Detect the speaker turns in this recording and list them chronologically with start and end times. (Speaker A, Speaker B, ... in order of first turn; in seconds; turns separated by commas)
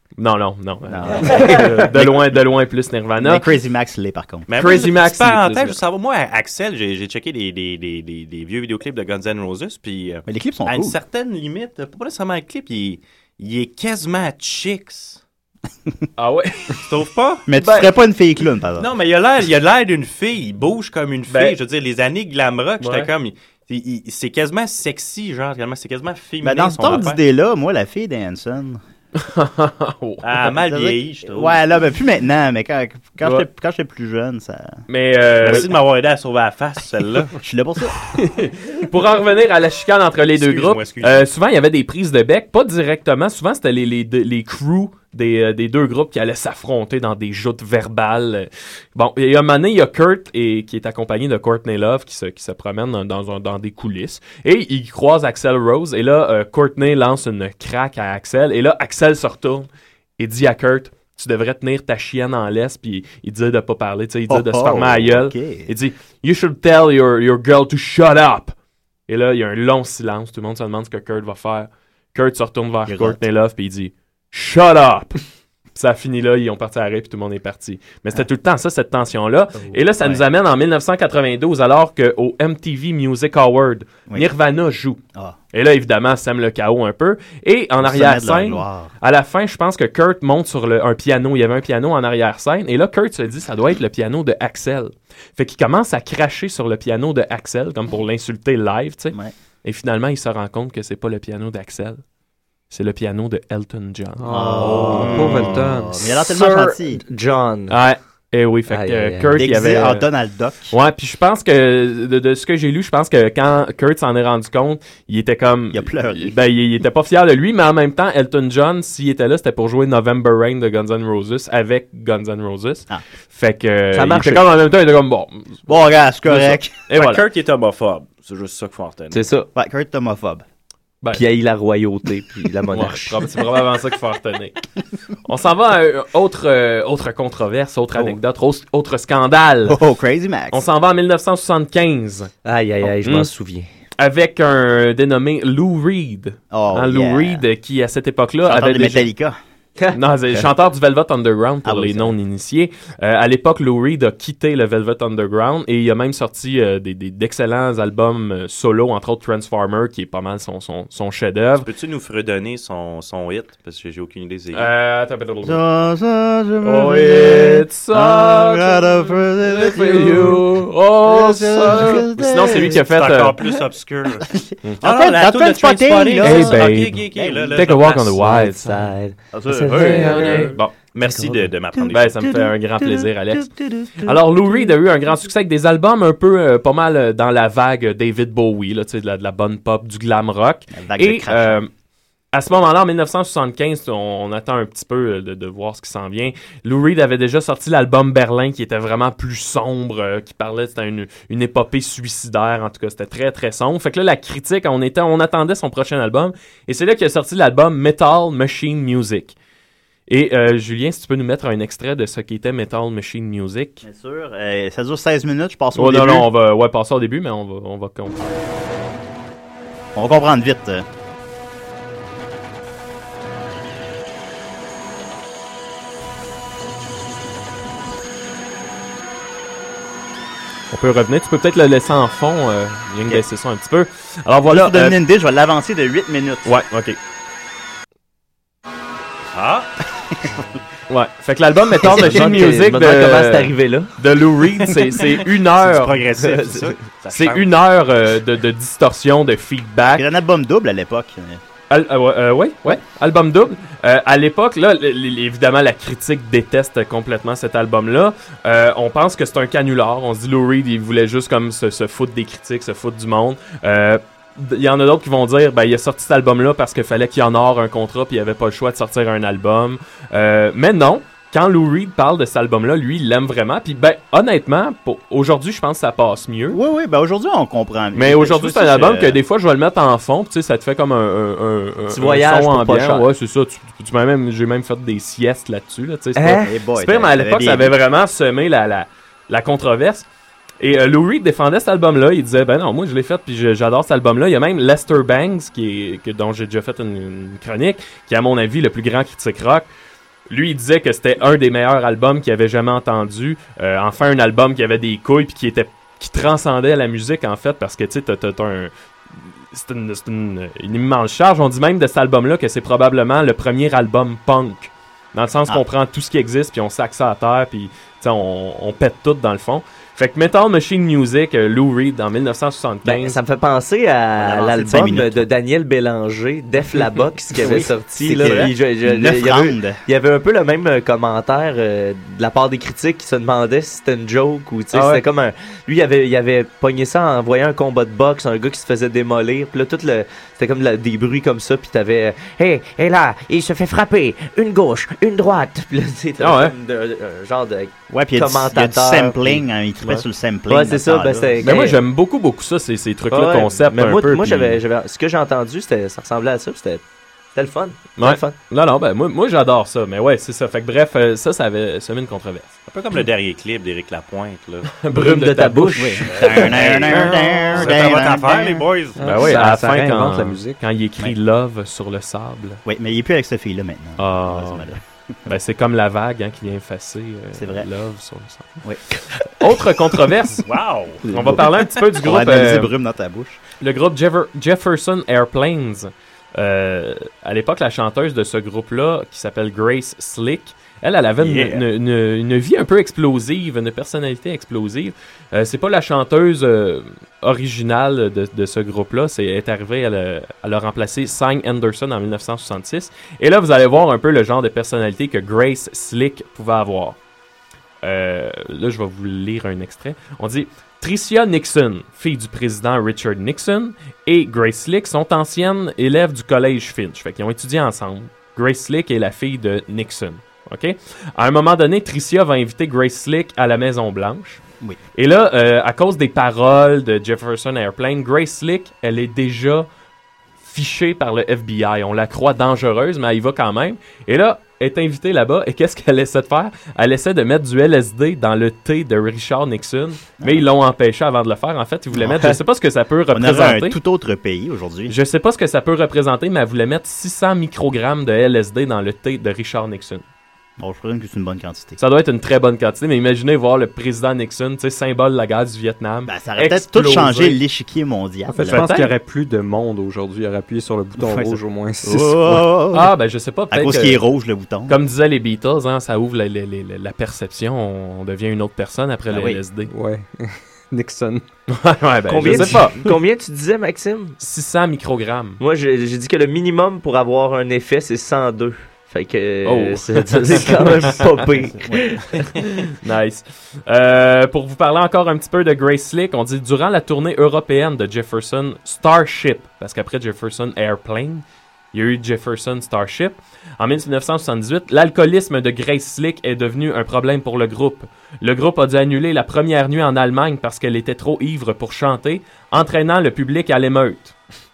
Speaker A: 0.2-3.5, Speaker B: 0.9-2.2, Speaker B: 3.2-4.5, Speaker C: 4.5-15.2, Speaker A: 4.5-5.8, Speaker B: 10.3-11.0, Speaker A: 16.2-16.8, Speaker C: 16.8-17.5, Speaker B: 17.5-18.9, Speaker A: 17.5-17.9, Speaker C: 18.8-27.2, Speaker A: 21.3-21.6, Speaker A: 22.8-23.1, Speaker B: 26.4-28.8, Speaker A: 29.2-30.5, Speaker C: 30.2-31.6, Speaker B: 30.5-34.8, Speaker A: 33.2-33.5, Speaker A: 34.9-35.7, Speaker C: 35.4-37.3, Speaker B: 37.4-38.0, Speaker A: 38.0-59.7, Speaker C: 40.4-41.2, Speaker A: 60.2-68.5, Speaker B: 64.3-65.7, Speaker A: 69.1-75.2, Speaker B: 72.9-73.2, Speaker A: 75.8-85.0, Speaker B: 79.7-80.2, Speaker A: 85.5-102.0, Speaker B: 87.8-88.9, Speaker A: 102.7-105.6, Speaker D: 104.2-106.0, Speaker B: 104.3-107.0, Speaker A: 106.3-106.8, Speaker E: 106.5-107.8, Speaker A: 107.7-110.1, Speaker E: 108.7-109.4, Speaker B: 109.3-110.7, Speaker A: 110.7-127.2, Speaker B: 115.7-116.4, Speaker E: 123.9-124.5, Speaker B: 125.7-126.7, Speaker C: 126.9-129.2, Speaker E: 129.1-129.5, Speaker B: 129.6-130.4, Speaker E: 131.1-133.3, Speaker A: 132.7-134.6, Speaker A: 135.2-139.8, Speaker B: 139.7-140.6, Speaker A: 140.5-142.3, Speaker E: 142.4-143.7, Speaker A: 142.9-143.3, Speaker A: 144.0-149.1, Speaker B: 146.5-147.4, Speaker B: 148.4-149.4, Speaker E: 149.8-150.5, Speaker A: 149.9-161.7, Speaker B: 151.7-152.1, Speaker C: 161.7-164.7, Speaker A: 164.5-165.6, Speaker B: 165.4-172.8, Speaker A: 166.6-173.4, Speaker C: 172.7-174.2, Speaker B: 174.3-177.7, Speaker C: 174.8-178.2, Speaker A: 176.2-178.9, Speaker E: 178.2-180.5, Speaker B: 179.3-180.5, Speaker A: 179.7-180.8, Speaker C: 180.1-182.1, Speaker A: 181.9-191.7, Speaker B: 183.6-183.9, Speaker B: 190.7-191.6, Speaker A: 192.3-209.4, Speaker A: 210.1-213.8, Speaker B: 213.8-216.3, Speaker A: 215.8-218.3, Speaker B: 219.9-220.8, Speaker A: 230.7-235.0, Speaker B: 234.5-236.5, Speaker A: 236.4-237.0, Speaker C: 239.3-239.7, Speaker A: 240.9-246.0, Speaker E: 241.8-243.9, Speaker B: 241.9-242.3, Speaker C: 244.8-247.5, Speaker E: 246.2-246.7, Speaker A: 247.1-250.1, Speaker B: 250.0-251.4, Speaker A: 251.7-276.6, Speaker B: 276.5-279.2, Speaker A: 277.9-290.1, Speaker E: 281.9-283.1, Speaker E: 286.2-286.5, Speaker B: 286.4-287.7, Speaker A: 290.6-299.7, Speaker A: 300.3-308.7, Speaker A: 309.5-323.2, Speaker E: 322.9-351.8, Speaker B: 324.2-325.3, Speaker B: 327.4-329.8, Speaker A: 327.5-328.5, Speaker A: 334.7-335.0, Speaker A: 346.2-346.5, Speaker B: 347.9-351.6, Speaker A: 351.4-354.6, Speaker E: 353.1-356.8, Speaker E: 357.4-358.4, Speaker A: 358.0-362.6, Speaker C: 362.7-364.7, Speaker A: 364.8-366.2, Speaker E: 364.9-366.8, Speaker B: 365.8-368.6, Speaker C: 366.1-369.4, Speaker D: 369.0-370.6, Speaker A: 369.1-372.6, Speaker B: 372.7-374.8, Speaker A: 374.0-374.7, Speaker A: 375.3-378.6, Speaker B: 377.4-377.7, Speaker A: 379.3-380.4, Speaker C: 380.4-381.0, Speaker A: 381.0-382.7, Speaker E: 381.1-381.4, Speaker B: 382.0-383.4, Speaker A: 383.6-407.0, Speaker C: 391.2-391.6, Speaker A: 407.8-424.4, Speaker A: 424.9-429.7, Speaker A: 430.4-443.8, Speaker B: 440.2-440.5, Speaker B: 441.9-442.4, Speaker B: 443.1-445.0, Speaker A: 444.9-450.1, Speaker B: 450.6-451.8, Speaker A: 451.8-457.4, Speaker B: 456.1-458.7, Speaker D: 458.3-462.5, Speaker A: 458.5-458.9, Speaker B: 461.0-462.9, Speaker A: 462.7-464.1, Speaker B: 463.5-464.8, Speaker A: 464.7-469.7, Speaker B: 469.1-469.4, Speaker D: 469.7-471.2, Speaker A: 471.5-472.9, Speaker E: 472.1-474.2, Speaker D: 472.2-472.6, Speaker A: 474.2-475.4, Speaker E: 475.4-482.5, Speaker A: 479.4-481.2, Speaker B: 481.5-482.1, Speaker A: 482.8-504.2